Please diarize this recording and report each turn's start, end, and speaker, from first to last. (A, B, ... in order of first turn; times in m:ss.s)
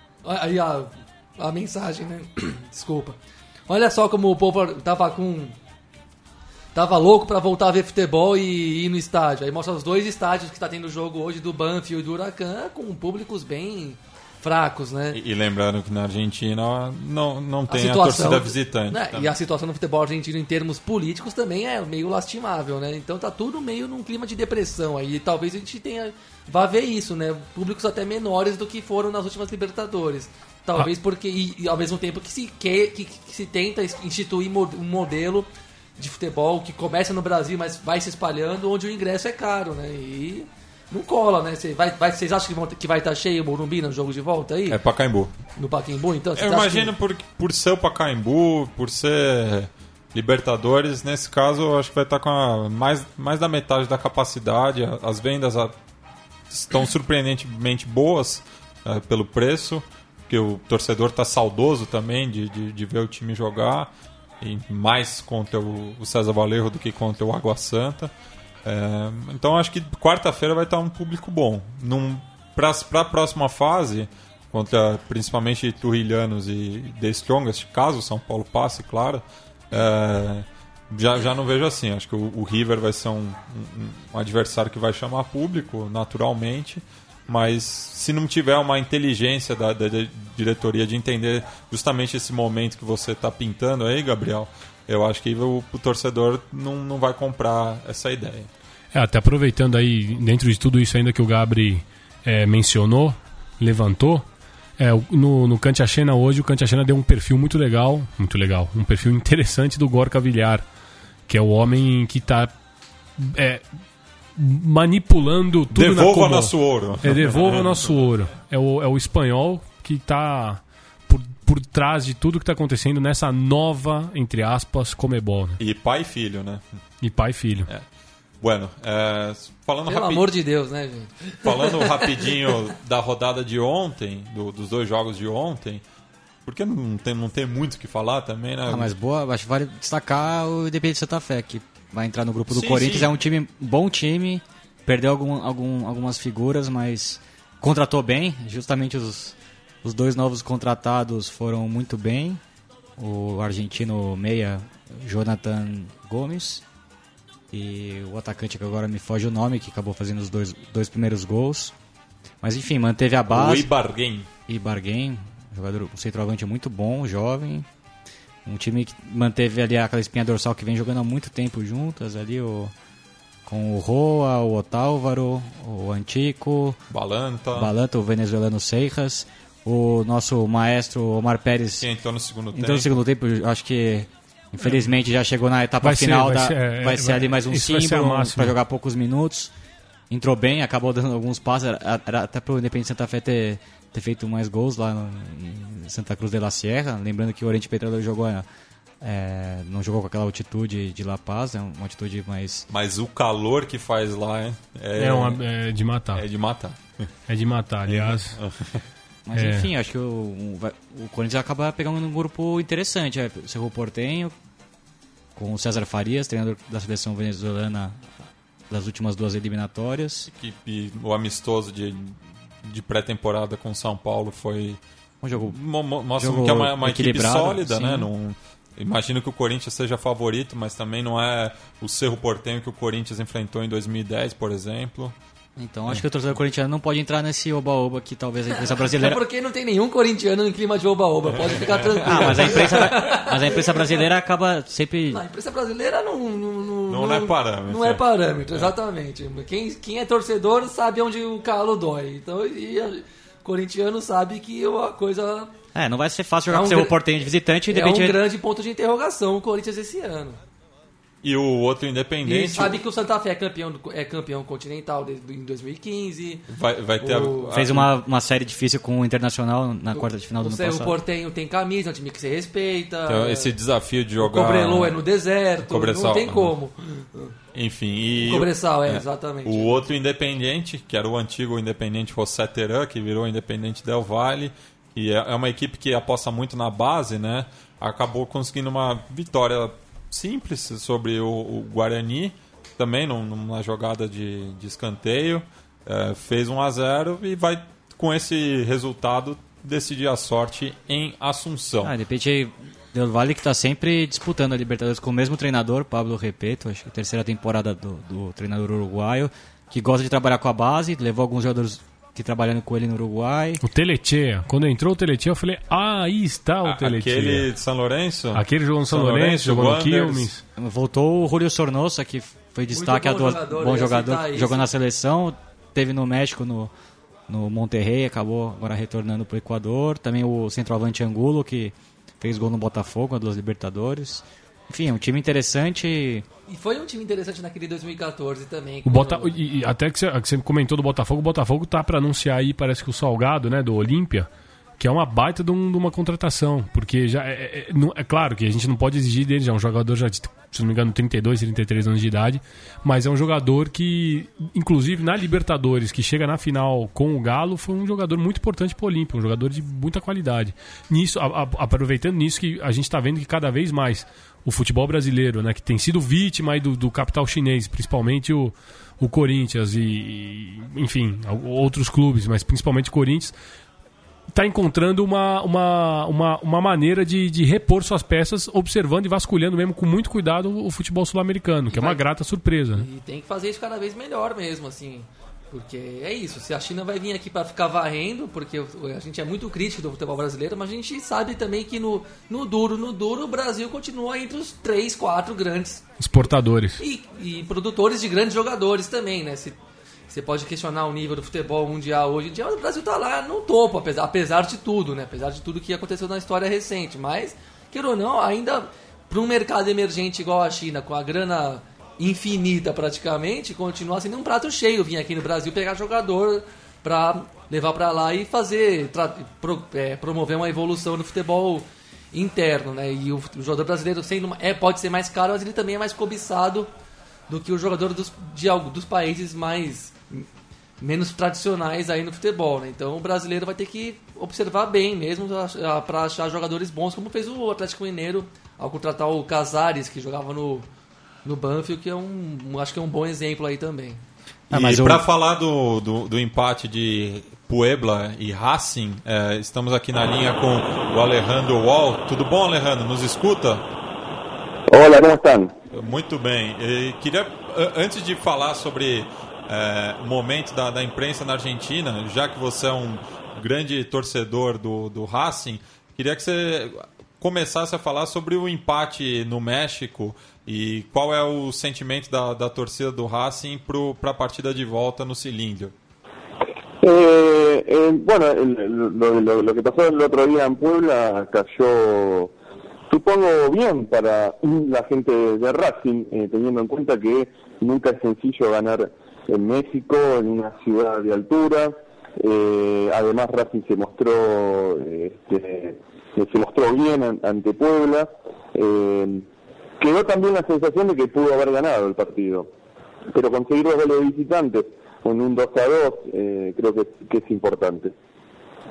0:00.2-0:05.6 A
0:06.7-0:15.2 A
0:15.1-0:19.3 B
0:17.7-0:44.8 A
0:44.7-0:45.3 B
0:45.6-0:46.9 A
0:46.4-0:55.8 B
0:56.5-1:03.9 B
1:04.4-1:08.1 B
1:08.6-1:38.5 B
1:38.9-1:44.2 C
1:44.8-1:50.6 C
1:51.3-1:52.5 C
1:53.2-1:53.6 C
1:54.4-2:05.6 C
1:55.7-1:58.0 B
2:05.6-2:06.6 B
2:07.0-2:07.7 C
2:08.4-2:10.3 B
2:09.9-2:12.3 A
2:11.4-2:15.8 B
2:16.4-2:18.9 B
2:18.7-2:32.4 D
2:22.5-2:23.1 B
2:33.0-2:36.6 D
2:37.5-2:41.7 D
2:42.4-2:43.7 D
2:43.3-2:44.3 B
2:44.5-2:47.7 D
2:48.4-2:52.7 D
2:53.4-2:56.8 D
2:56.9-2:57.7 B
2:57.5-3:01.9 D
3:01.8-3:03.0 B
3:02.5-3:09.5 D
3:05.8-3:08.5 C
3:10.1-3:18.4 D
3:19.0-3:22.7 D
3:22.7-3:25.4 B
3:25.0-3:26.2 C
3:26.1-3:27.1 B
3:27.3-3:28.4 C
3:27.9-3:28.8 B
3:29.2-3:34.3 D
3:29.4-3:29.7 C
3:35.3-3:38.1 D
3:38.7-3:40.3 D
3:40.3-3:44.8 B
3:45.2-3:45.6 D
3:45.4-3:55.1 B
3:46.1-3:48.1 D
3:55.6-3:59.2 D
3:58.5-4:03.9 A
4:01.5-4:02.8 B
4:02.0-4:05.2 D
4:05.1-4:15.5 A
4:06.9-4:08.7 B
4:15.7-4:18.2 D
4:16.5-4:17.0 A
4:17.7-4:20.4 A
4:21.2-4:22.8 B
4:22.2-4:26.4 A
4:26.5-4:27.9 B
4:27.0-4:27.5 A
4:27.5-4:30.9 D
4:29.9-4:33.5 A
4:33.1-4:35.0 B
4:34.2-4:37.3 A
4:35.6-4:36.5 B
4:37.5-5:01.9 B
4:38.2-4:39.9 A
5:01.8-5:13.6 D
5:13.6-5:17.5 C
5:16.6-5:20.3 B
5:18.3-5:20.4 C
5:20.6-5:26.7 D
5:22.7-5:24.7 A
5:27.3-5:36.2 D
5:36.5-5:39.4 A
5:38.8-5:44.3 C
5:44.8-6:13.3 C
6:14.3-6:22.9 C
6:21.7-6:22.0 A
6:22.8-6:35.8 A
6:36.0-6:36.8 C
6:36.8-6:39.6 A
6:40.1-7:06.7 A
7:07.3-7:10.2 A
7:10.8-7:20.7 A
7:21.2-7:24.0 A
7:24.5-7:25.0 D
7:24.5-7:33.6 B
7:34.7-7:35.5 E
7:35.7-7:55.7 B
7:56.8-8:02.3 E
8:02.9-8:19.2 E
8:19.8-8:22.5 E
8:23.1-8:27.9 E